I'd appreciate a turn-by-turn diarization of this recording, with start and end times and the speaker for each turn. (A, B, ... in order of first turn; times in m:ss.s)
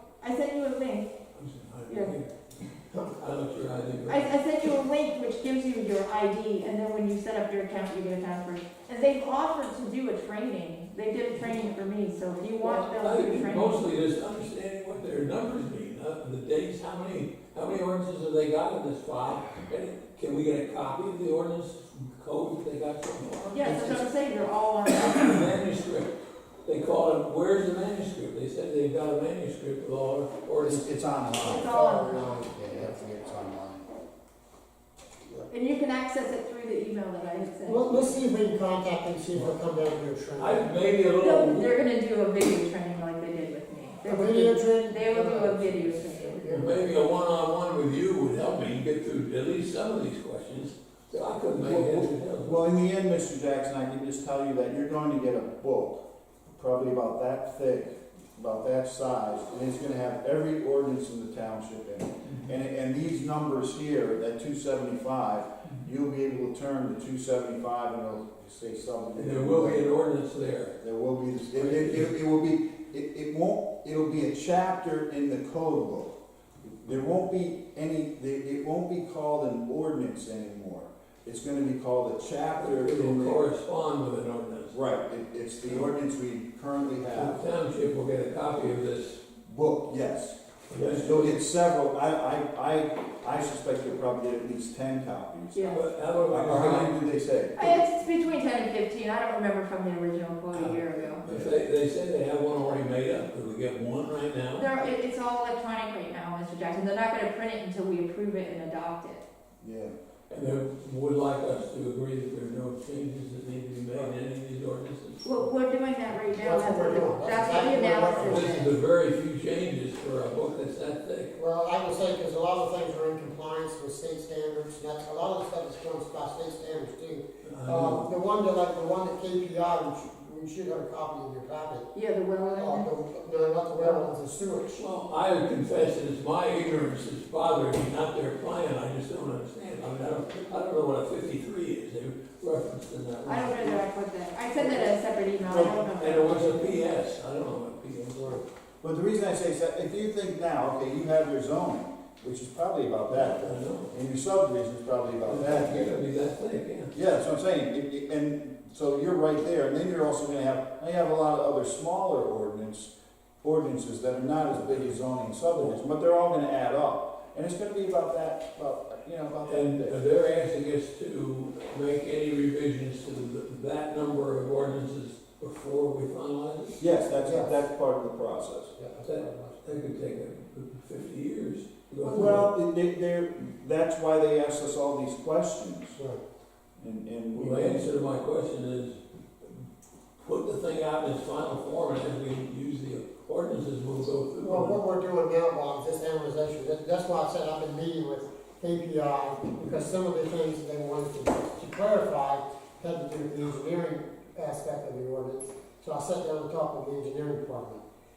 0:00.2-0:01.1 A
0:01.3-0:02.3 B
0:01.9-0:02.2 A
0:02.9-0:04.3 B
0:04.1-0:13.9 A
0:12.6-0:23.9 B
0:23.5-0:25.5 A
0:23.7-0:24.0 C
0:25.0-0:26.1 B
0:26.6-0:30.9 B
0:30.6-0:31.7 C
0:31.4-0:32.4 A
0:31.6-0:32.7 D
0:32.5-0:33.9 C
0:35.5-0:38.2 A
0:37.6-0:40.8 D
0:40.4-0:41.8 B
0:41.2-0:46.4 A
0:44.0-0:46.9 D
0:46.5-0:52.6 B
0:51.5-0:56.0 C
0:56.5-1:09.8 C
1:09.1-1:10.7 B
1:10.8-1:23.4 C
1:11.5-1:12.1 B
1:22.6-1:24.8 B
1:24.7-1:27.4 C
1:27.1-1:29.2 B
1:29.4-1:37.7 C
1:30.7-1:31.4 B
1:35.5-1:35.8 A
1:35.7-1:37.0 B
1:37.6-1:41.3 A
1:40.5-1:44.6 B
1:41.2-1:41.6 C
1:44.5-1:49.2 A
1:49.6-1:49.9 C
1:50.3-1:55.4 B
1:55.2-1:58.5 A
1:56.4-1:58.7 D
1:58.2-2:01.3 B
2:01.3-2:11.9 D
2:07.4-2:08.0 B
2:11.9-2:12.9 A
2:12.5-2:14.8 D
2:13.8-2:14.1 A
2:14.7-2:23.8 B
2:23.2-2:26.7 A
2:25.4-2:26.2 C
2:25.8-2:28.4 B
2:28.8-2:36.0 C
2:33.1-2:33.9 B
2:35.2-2:36.9 B
2:36.9-2:42.9 C
2:43.4-2:50.0 C
2:49.4-2:56.8 B
2:56.8-2:58.7 C
2:57.2-2:57.5 D
2:58.8-2:59.6 D
2:59.0-3:02.5 B
3:02.1-3:06.0 C
3:06.0-3:06.2 D
3:06.8-3:07.9 C
3:07.3-3:09.6 B
3:10.2-3:14.8 B
3:14.4-3:27.8 D